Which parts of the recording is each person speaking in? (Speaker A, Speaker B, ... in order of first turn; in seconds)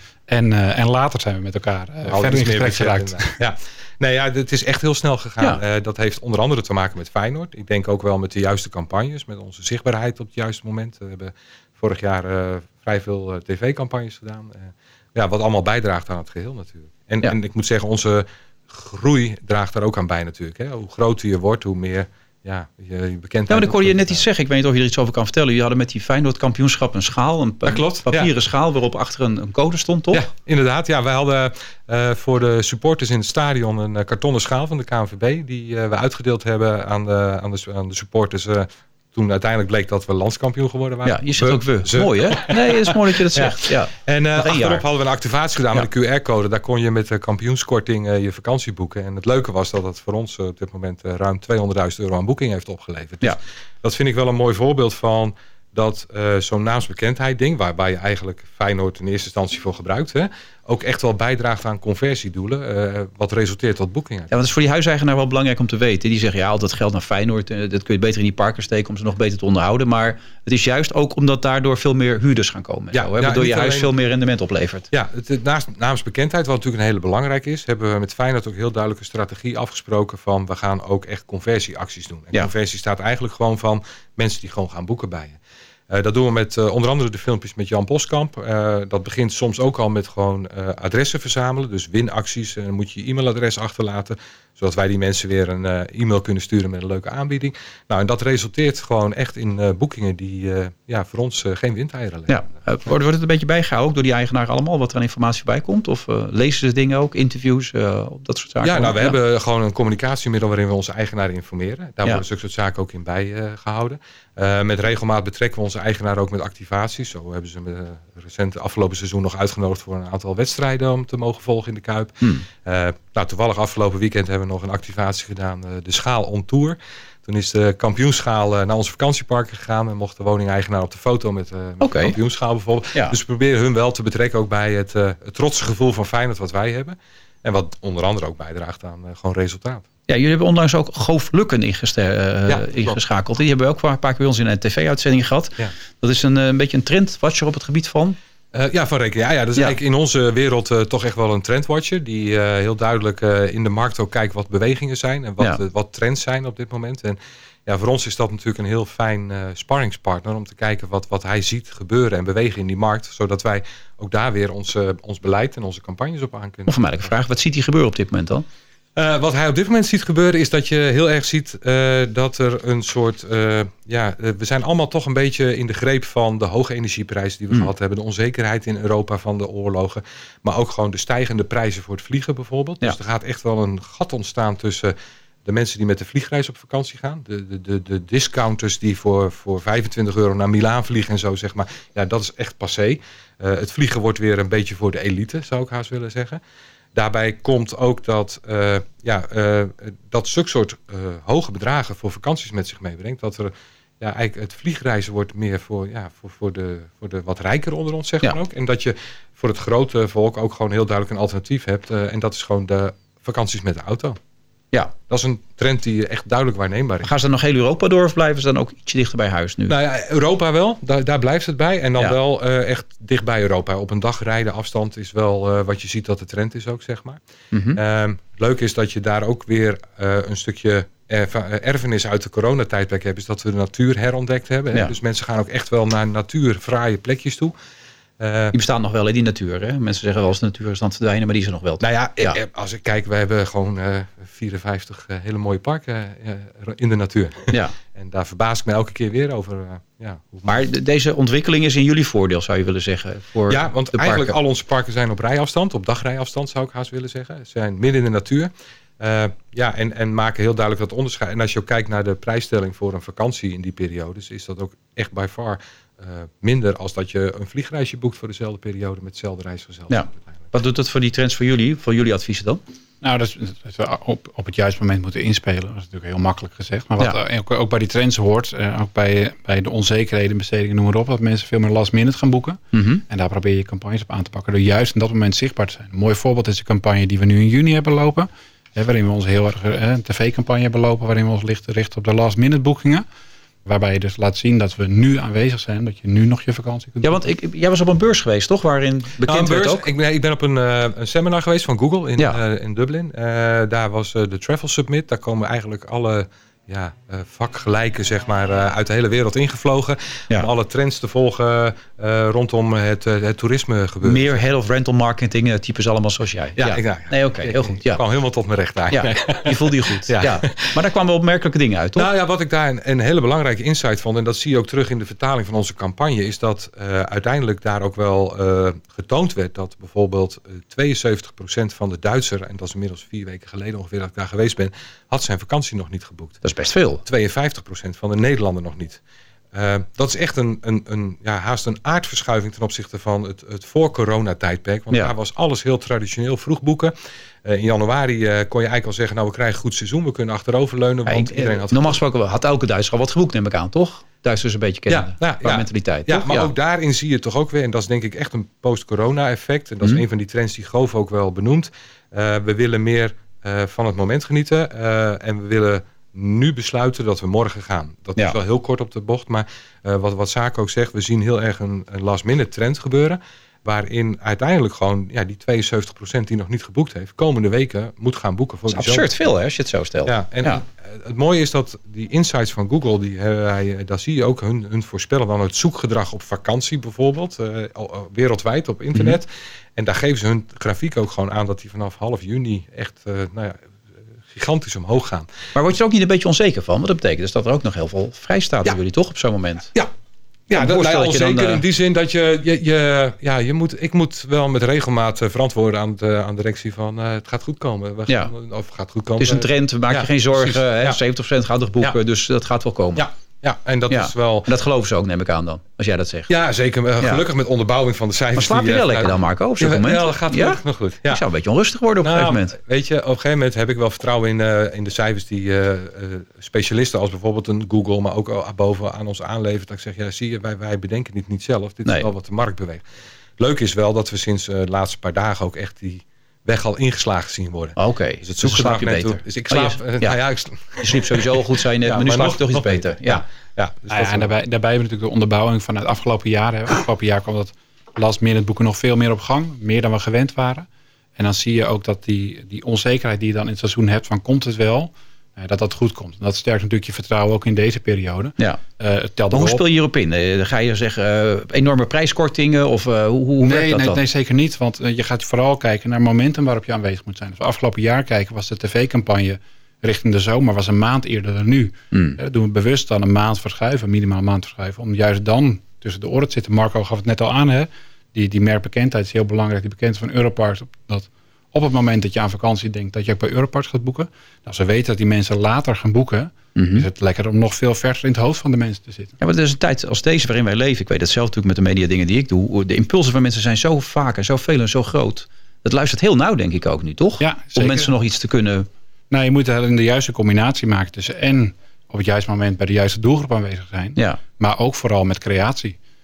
Speaker A: 0.3-3.4, 273.0-293.1, 293.6-297.2, 443.9-459.6, 463.4-489.1, 497.2-497.9, 499.1-505.8
Speaker B: 2.1-24.2, 27.7-28.3, 30.1-64.3, 72.9-73.9, 74.9-85.4, 85.9-102.5, 108.6-139.9, 142.5-143.0, 148.5-167.1, 169.0-184.9, 185.4-196.4, 196.9-214.2, 215.1-217.1, 219.7-227.2, 227.7-237.5, 238.2-238.6, 241.8-250.6, 253.5-270.4, 299.3-314.4, 316.6-320.8, 322.0-336.4, 337.0-339.0, 339.5-346.9, 347.4-352.0, 354.9-379.1, 380.1-393.6, 394.3-395.3, 400.5-411.0, 413.0-414.5, 416.3-421.2, 422.0-432.8, 433.4-444.4
Speaker C: 23.5-30.2, 41.0-44.9, 64.3-74.9, 102.3-109.2, 131.8-132.2, 140.1-148.2, 166.7-168.4, 217.0-219.8, 227.5-227.8, 238.5-242.4, 250.5-254.3, 269.9-272.6, 282.7-283.0, 297.0-299.9, 314.0-318.0, 318.9-322.1, 336.4-337.0, 351.1-356.5, 378.7-380.6, 395.6-399.7, 400.5-401.6, 409.2-413.1, 413.9-416.3, 417.0-417.2, 418.4-422.6, 437.8-440.2, 440.8-443.2, 459.3-464.0, 486.6-486.9, 489.2-498.7